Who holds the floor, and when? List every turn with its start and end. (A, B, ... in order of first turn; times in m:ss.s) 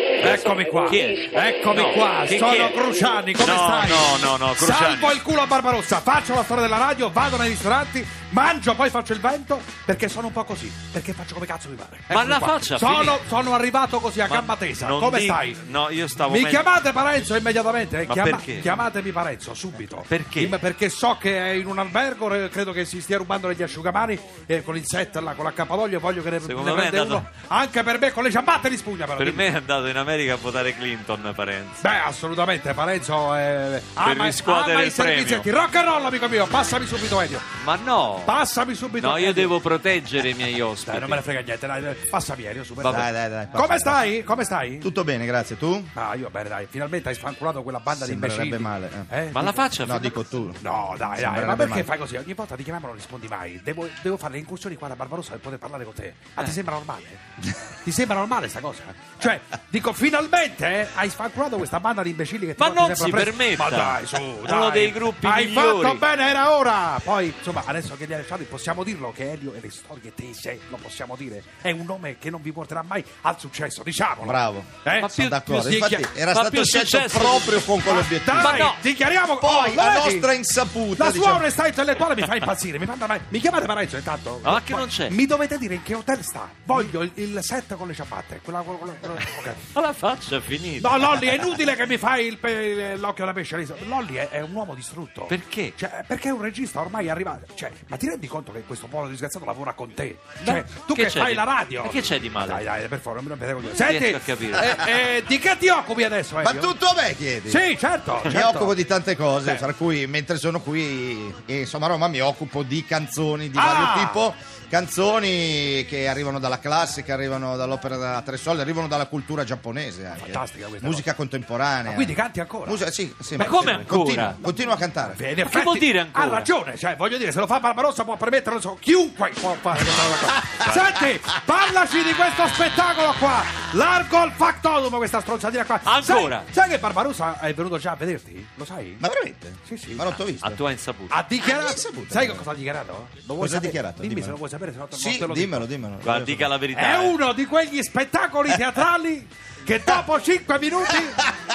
0:00.2-0:05.2 A
0:00.2-0:15.6 B
0:12.1-0:13.2 A
0:14.2-0:16.7 A
0:16.2-0:29.5 B
0:18.0-0:18.8 A
0:20.1-0:20.6 A
0:26.4-0:27.2 A
0:29.2-0:31.8 A
0:31.8-0:37.5 B
0:34.0-0:35.5 A
0:37.6-0:38.4 A
0:38.2-0:39.6 B
0:39.0-0:41.2 A
0:40.9-0:44.9 B
0:42.8-0:43.0 A
0:42.8-0:44.1 C
0:44.8-0:45.9 C
0:45.9-0:49.6 B
0:47.9-0:49.1 C
0:49.3-0:50.2 A
0:49.8-0:51.9 C
0:50.6-0:57.2 B
0:57.8-1:16.2 B
1:02.6-1:06.0 A
1:14.2-1:18.7 C
1:15.0-1:15.3 A
1:16.3-1:17.7 A
1:17.8-1:20.3 B
1:18.3-1:18.8 A
1:19.4-1:21.5 C
1:21.0-1:29.7 B
1:24.4-1:25.2 A
1:29.7-1:31.6 A
1:30.8-1:46.7 B
1:35.3-1:35.8 A
1:40.4-1:42.7 A
1:43.7-1:45.0 A
1:46.4-1:47.6 C
1:47.5-1:48.8 B
1:48.2-2:05.2 C
1:53.5-1:54.2 B
2:00.1-2:01.0 B
2:01.8-2:02.8 B
2:03.4-2:04.4 A
2:03.4-2:03.7 B
2:05.0-2:19.0 B
2:05.4-2:06.5 A
2:10.2-2:11.1 C
2:15.8-2:16.5 A
2:19.0-2:20.6 C
2:19.6-2:20.0 B
2:20.4-2:21.2 A
2:21.1-2:25.7 B
2:21.4-2:22.5 C
2:23.4-2:24.4 C
2:24.9-2:26.5 C
2:26.0-2:27.2 A
2:26.7-2:31.3 B